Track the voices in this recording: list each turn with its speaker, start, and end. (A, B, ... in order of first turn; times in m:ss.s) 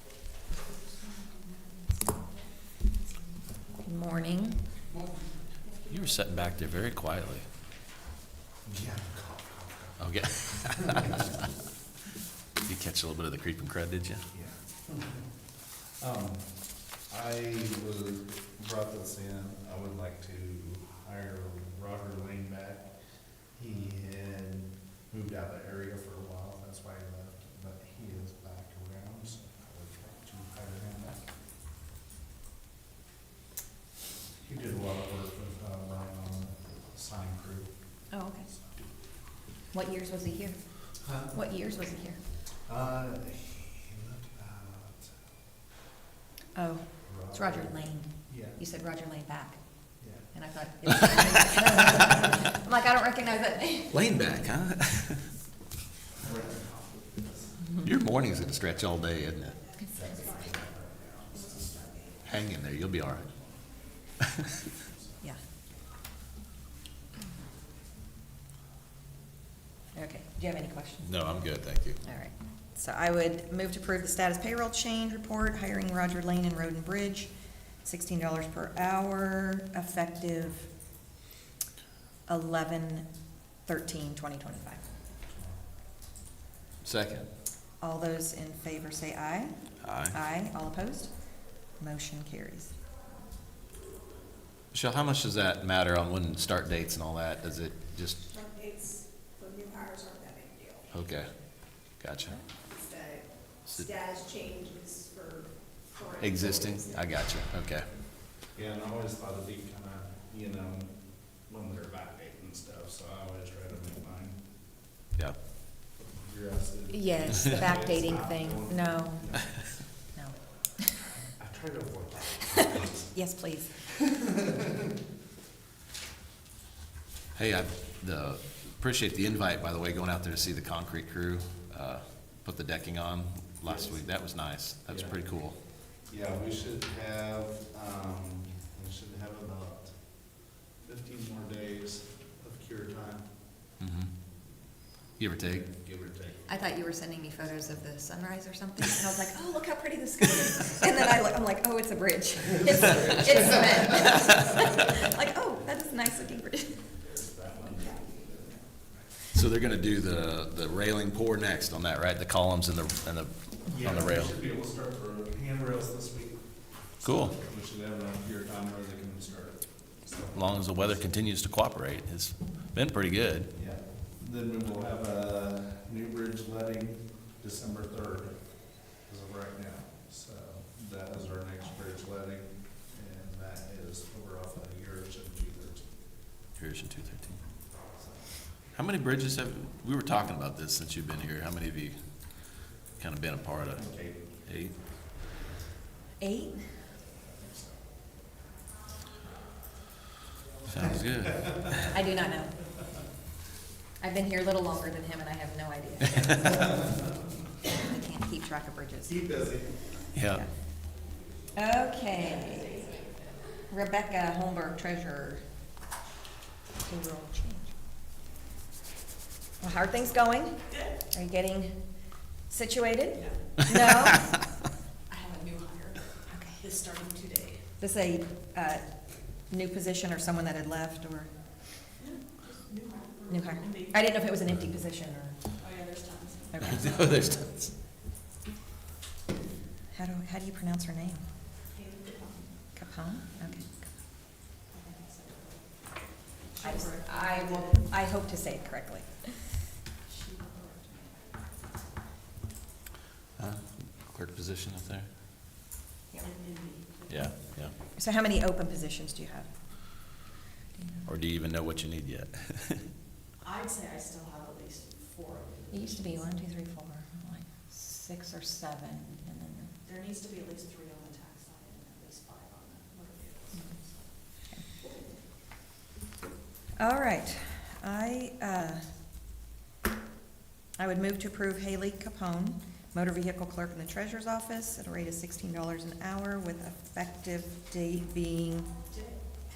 0:03.8-0:04.6 A
0:05.9-0:07.4 B
0:08.7-0:10.0 C
0:10.0-0:11.5 B
0:10.6-0:11.2 C
0:12.6-0:14.3 B
0:14.3-0:15.2 C
0:16.0-0:16.5 C
0:17.1-0:22.9 C
0:23.6-0:31.3 C
0:34.4-0:37.7 C
0:38.1-0:38.5 A
0:39.7-0:40.6 A
0:41.0-0:41.3 C
0:41.3-0:42.2 A
0:42.7-0:45.1 C
0:46.6-0:49.6 A
0:47.1-0:47.7 C
0:48.3-0:48.6 C
0:50.3-0:53.9 A
0:53.9-0:55.2 B
0:56.2-0:57.6 C
0:57.8-0:59.6 B
1:00.0-1:02.0 C
1:02.2-1:03.3 B
1:09.9-1:11.1 A
1:11.0-1:12.0 B
1:12.0-1:17.3 A
1:17.8-1:20.7 A
1:22.3-1:23.1 A
1:23.7-1:24.8 A
1:26.8-1:27.3 B
1:27.8-1:31.1 A
1:29.8-1:30.2 B
1:31.8-1:32.8 A
1:34.7-1:38.3 B
1:39.5-1:40.8 D
1:40.9-1:41.3 B
1:42.0-1:42.4 B
1:44.1-1:45.5 D
1:46.1-1:47.9 B
1:48.5-1:50.9 C
1:51.5-1:54.4 C
1:56.2-1:59.8 C
1:56.9-1:59.3 A
2:00.2-2:01.1 A
2:01.4-2:03.1 C
2:03.1-2:03.8 A
2:03.9-2:04.7 C
2:07.4-2:15.6 B
2:16.1-2:19.9 C
2:20.8-2:23.2 C
2:23.8-2:24.1 B
2:25.2-2:25.7 B
2:25.7-2:26.5 C
2:26.5-2:36.8 A
2:32.6-2:33.9 C
2:37.0-2:38.4 C
2:39.3-2:44.3 B
2:43.7-2:46.4 C
2:47.0-2:47.4 B
2:47.1-2:50.3 C
2:50.3-2:53.5 B
2:53.6-2:58.4 C
2:59.1-3:05.8 C
3:06.6-3:07.4 B
3:08.8-3:13.8 B
3:13.8-3:14.2 C
3:14.5-3:14.7 B
3:16.2-3:16.8 A
3:17.3-3:17.7 C
3:20.7-3:21.9 B
3:21.9-3:22.5 A
3:24.0-3:26.8 A
3:27.7-3:29.2 A
3:29.1-3:29.8 C
3:30.2-3:30.4 B
3:31.6-3:32.8 A
3:33.7-3:35.4 A
3:36.8-3:37.7 A
3:39.6-3:41.8 A
3:42.5-3:44.4 A
3:46.3-3:46.7 A
3:46.7-3:47.0 D
3:47.8-3:48.9 A
3:49.5-3:51.3 A
3:53.3-3:55.4 A
3:56.5-3:57.0 A
3:56.6-3:57.7 B
3:59.9-4:01.3 A
4:02.7-4:03.7 A
4:06.6-4:09.6 A
4:13.4-4:15.1 B
4:17.1-4:17.7 B
4:18.0-4:19.5 A
4:20.8-4:21.1 A
4:21.1-4:22.9 B
4:25.7-4:29.7 A
4:30.1-4:33.4 D
4:36.8-4:38.8 A
4:40.8-4:48.7 A